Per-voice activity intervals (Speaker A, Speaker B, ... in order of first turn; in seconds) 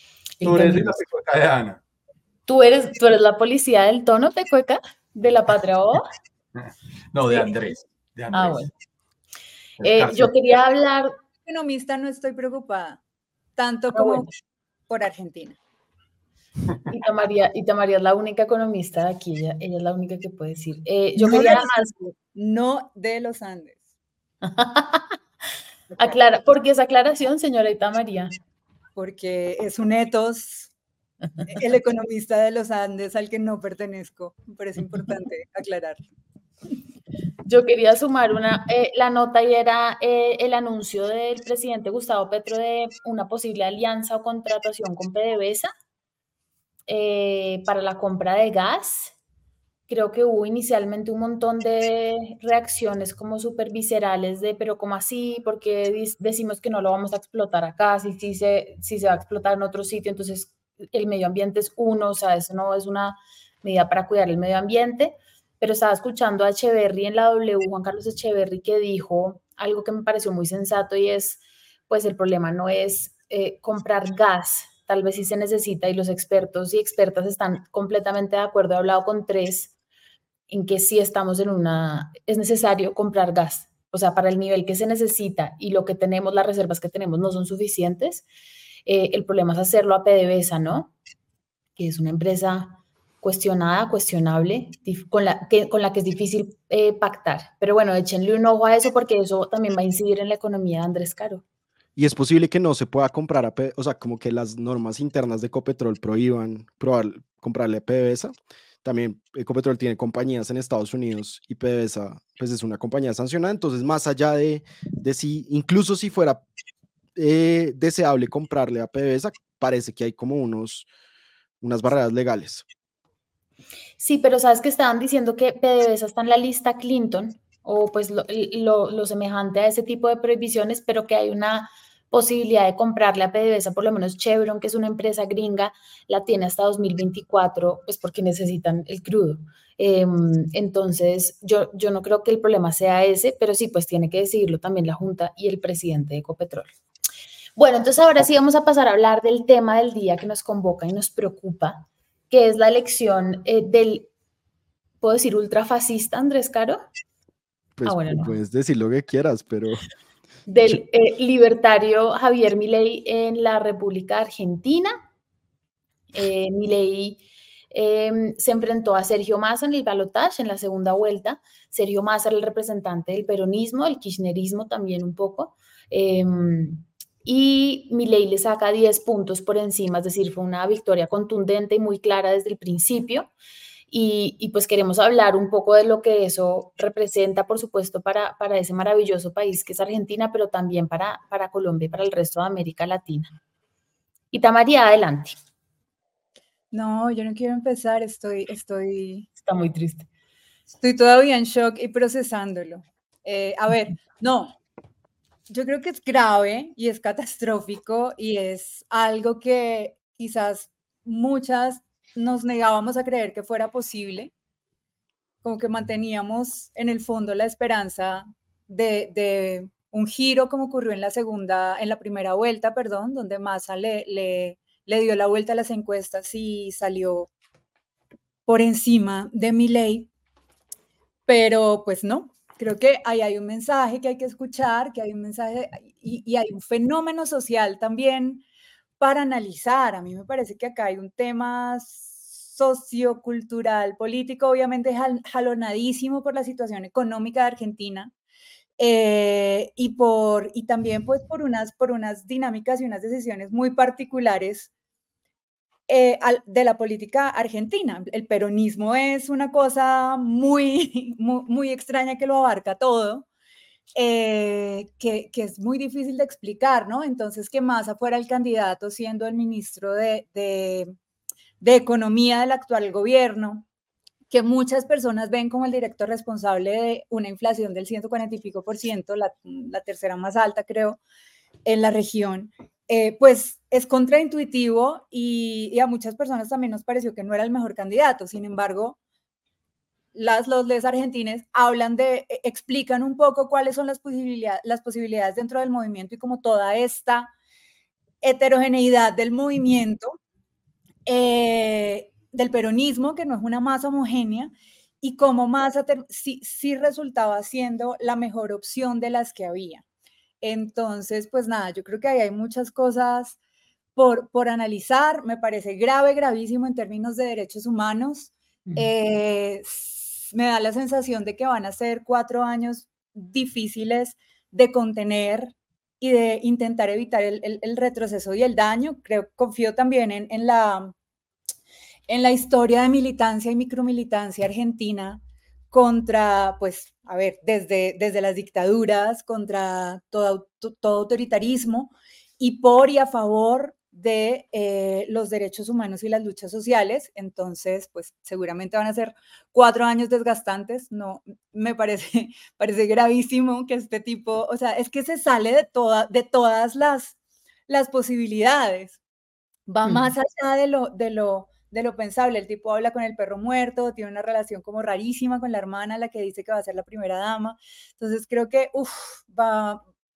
Speaker A: 0.4-0.9, 2.5-6.1, 8.3-8.7, 9.8-11.1, 13.9-14.2, 16.9-22.1, 24.4-25.2, 26.0-28.4, 37.5-45.7, 46.9-49.1, 49.9-79.7, 80.5-88.2, 88.8-90.9, 91.8-101.4, 124.0-146.7, 147.6-154.1, 155.0-156.8, 157.8-158.3, 160.5-165.0, 166.1-183.3, 183.9-193.3, 194.3-195.3, 199.4-200.1, 359.8-360.1
Speaker B: 0.4-1.8, 6.5-8.7, 9.8-10.3
Speaker C: 11.4-13.0, 13.6-14.3, 14.9-15.6, 21.2-21.7, 22.3-23.8, 28.9-30.7, 31.5-36.0, 196.7-199.3, 200.7-204.5, 205.5-214.3, 215.4-227.3, 228.4-230.1, 231.3-238.4, 239.0-248.1, 248.8-254.7, 255.9-263.2, 263.9-270.9, 271.6-273.6, 274.3-281.0, 281.6-289.0, 290.1-297.3, 298.2-300.2, 301.1-309.8, 310.4-313.4, 313.9-330.9, 332.1-357.1, 357.7-359.0, 359.7-369.8
Speaker D: 102.0-116.4, 117.2-120.9, 121.6-122.6, 157.8-159.8